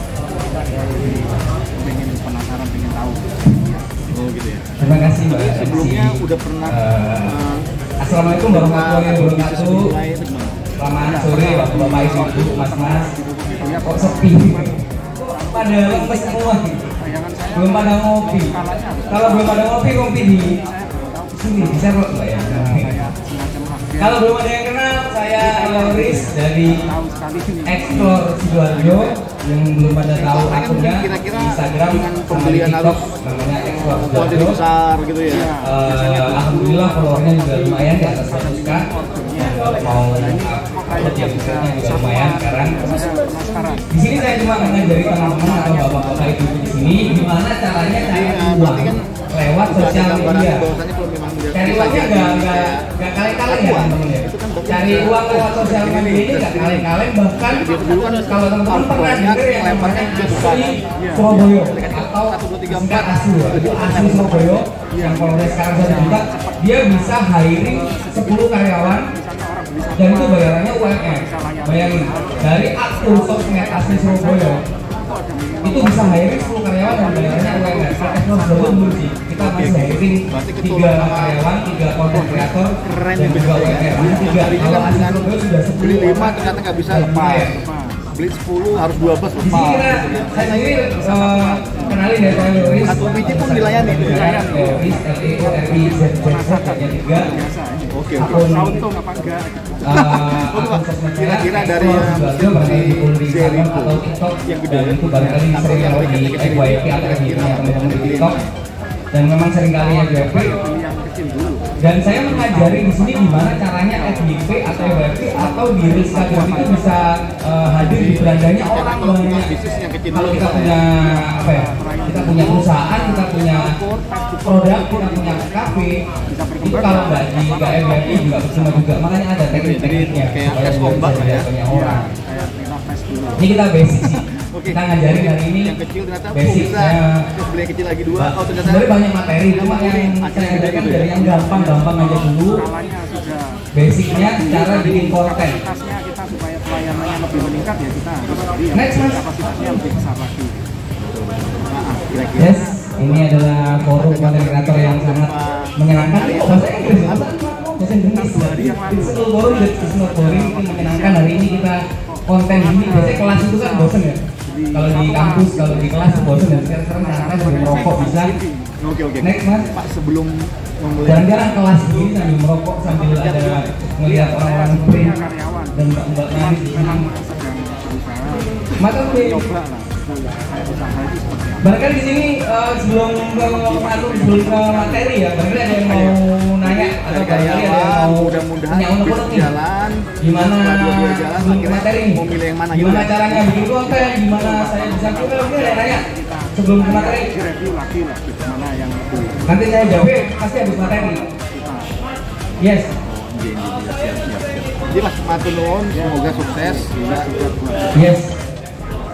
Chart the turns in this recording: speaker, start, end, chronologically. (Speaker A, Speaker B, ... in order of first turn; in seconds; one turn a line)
Speaker A: 0.8-3.9
Speaker B: 4.1-4.7
Speaker C: 4.8-7.3
Speaker B: 5.3-10.6
Speaker C: 8.0-9.9
Speaker C: 10.8-13.1
Speaker A: 11.0-24.3
Speaker C: 13.8-16.9
Speaker C: 17.5-18.5
Speaker C: 19.1-20.6
Speaker C: 21.3-22.9
Speaker C: 24.0-26.8
Speaker A: 25.4-29.1
Speaker C: 27.7-34.6
Speaker B: 30.1-33.1
Speaker B: 33.6-35.5
Speaker A: 35.3-46.9
Speaker C: 35.6-38.9
Speaker C: 39.4-42.9
Speaker C: 43.9-50.7
Speaker B: 47.9-49.0
Speaker B: 49.7-56.9
Speaker C: 51.5-69.1
Speaker B: 57.5-64.7
Speaker A: 61.0-61.2
Speaker A: 65.0-79.0
Speaker C: 69.9-74.6
Speaker C: 75.6-87.5
Speaker B: 78.5-81.5
Speaker B: 82.1-87.6
Speaker A: 87.6-88.1
Speaker B: 88.1-94.6
Speaker C: 89.4-97.3
Speaker A: 89.6-92.6
Speaker A: 94.0-99.8
Speaker B: 97.9-98.5
Speaker C: 98.2-98.8
Speaker C: 99.8-108.4
Speaker B: 99.8-108.5
Speaker C: 109.1-110.6
Speaker A: 110.0-117.0
Speaker C: 111.8-119.5
Speaker B: 117.7-120.8
Speaker C: 120.1-123.7
Speaker A: 120.9-128.9
Speaker C: 124.4-126.0
Speaker C: 126.6-132.1
Speaker B: 129.5-131.5
Speaker A: 131.7-133.4
Speaker C: 133.4-135.7
Speaker B: 134.0-138.9
Speaker C: 136.3-137.3
Speaker C: 138.1-142.6
Speaker B: 139.4-141.8
Speaker A: 141.7-143.6
Speaker C: 143.7-145.6
Speaker A: 144.1-150.6
Speaker C: 148.7-149.2
Speaker B: 151.0-153.2
Speaker C: 152.4-164.2
Speaker B: 153.8-157.4
Speaker A: 158.0-164.0
Speaker B: 164.5-164.8
Speaker C: 164.7-168.3
Speaker A: 164.8-168.7
Speaker B: 168.8-172.1
Speaker C: 169.2-169.7
Speaker C: 171.0-175.2
Speaker B: 172.9-173.7
Speaker A: 174.0-175.8
Speaker C: 175.7-177.1
Speaker A: 176.3-181.8
Speaker C: 178.8-179.4
Speaker C: 181.6-189.5
Speaker A: 183.2-185.1
Speaker B: 185.7-193.7
Speaker C: 190.2-196.0
Speaker A: 193.9-200.1
Speaker C: 196.5-197.3
Speaker C: 199.5-201.2
Speaker A: 200.7-201.9
Speaker C: 202.6-202.9
Speaker B: 203.1-207.3
Speaker A: 205.9-207.9
Speaker C: 207.9-208.3